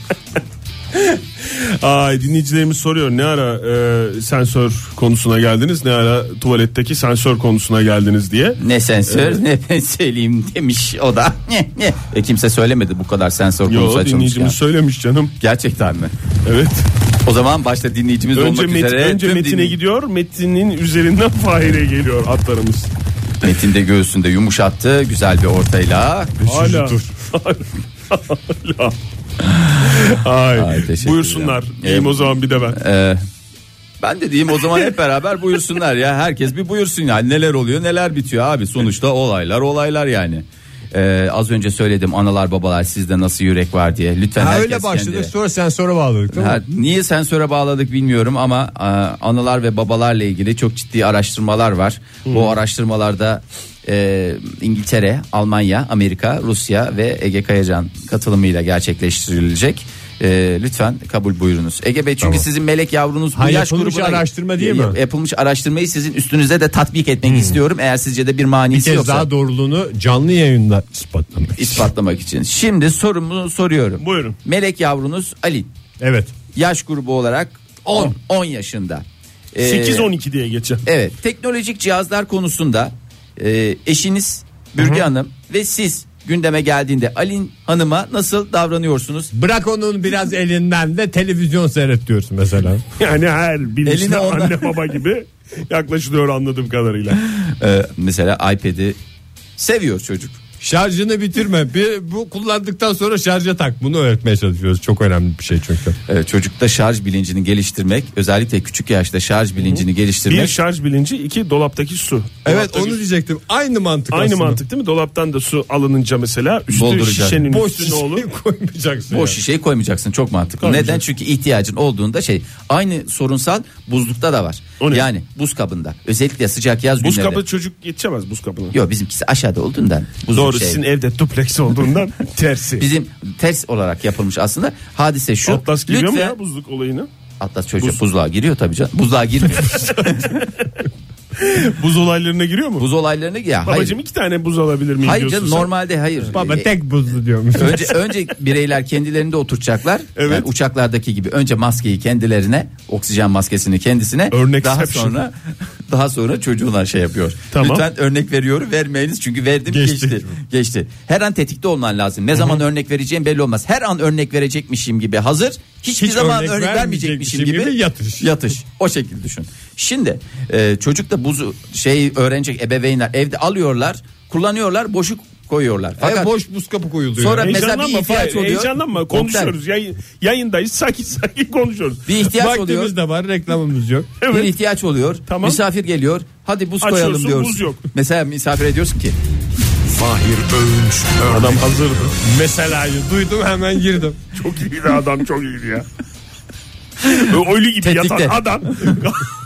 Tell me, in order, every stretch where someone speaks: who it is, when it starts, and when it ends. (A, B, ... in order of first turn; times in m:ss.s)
0:00.9-0:09.4 A
0:08.6-0:14.6 B
0:13.7-0:15.3 A
0:15.4-0:16.1 B
0:16.4-0:16.9 A
0:17.2-0:19.8 B
0:18.3-0:22.9 A
0:23.4-0:26.4 B
0:26.4-0:27.1 C
0:26.4-0:29.0 A
0:29.6-0:33.2 B
0:29.7-0:32.8 A
0:34.0-0:45.3 B
0:44.4-0:46.6 C
0:46.3-1:09.3 B
0:52.3-0:52.5 A
1:03.3-1:05.0 C
1:07.3-1:07.6 C
1:08.7-1:11.9 C
1:11.6-1:15.7 B
1:14.0-1:14.4 A
1:16.0-1:16.3 C
1:16.5-1:20.1 B
1:17.8-1:18.1 C
1:19.6-1:20.8 A
1:20.8-1:29.3 B
1:29.3-1:32.8 C
1:33.0-1:37.2 A
1:33.8-1:34.8 B
1:37.3-1:39.0 B
1:39.6-1:40.4 B
1:40.6-1:46.0 C
1:46.1-1:50.6 B
1:49.6-1:53.0 A
1:52.4-1:54.6 C
1:54.1-1:58.2 A
1:56.7-1:57.5 B
1:57.4-1:59.4 C
1:59.1-2:07.4 B
2:00.6-2:01.0 A
2:04.8-2:05.0 A
2:07.0-2:08.7 A
2:08.7-2:10.8 B
2:10.3-2:12.8 A
2:12.8-2:16.4 B
2:15.5-2:17.1 A
2:17.4-2:20.5 B
2:19.6-2:20.4 A
2:21.4-2:22.8 A
2:22.8-2:24.0 B
2:23.6-2:25.7 A
2:25.0-2:26.7 B
2:26.3-2:28.0 C
2:27.5-2:56.3 B
2:30.2-2:30.5 A
2:34.3-2:35.2 A
2:37.5-2:37.8 A
2:39.7-2:40.3 C
2:46.0-2:48.3 C
2:56.0-2:57.6 C
2:57.2-2:59.5 B
2:57.4-3:02.1 A
3:02.0-3:02.9 B
3:02.3-3:04.1 C
3:04.2-3:04.5 A
3:04.3-3:09.1 B
3:05.3-3:05.6 A
3:06.8-3:07.8 A
3:09.9-3:14.2 C
3:11.3-3:12.2 A
3:14.3-3:15.8 A
3:17.0-3:19.0 B
3:17.1-3:19.3 A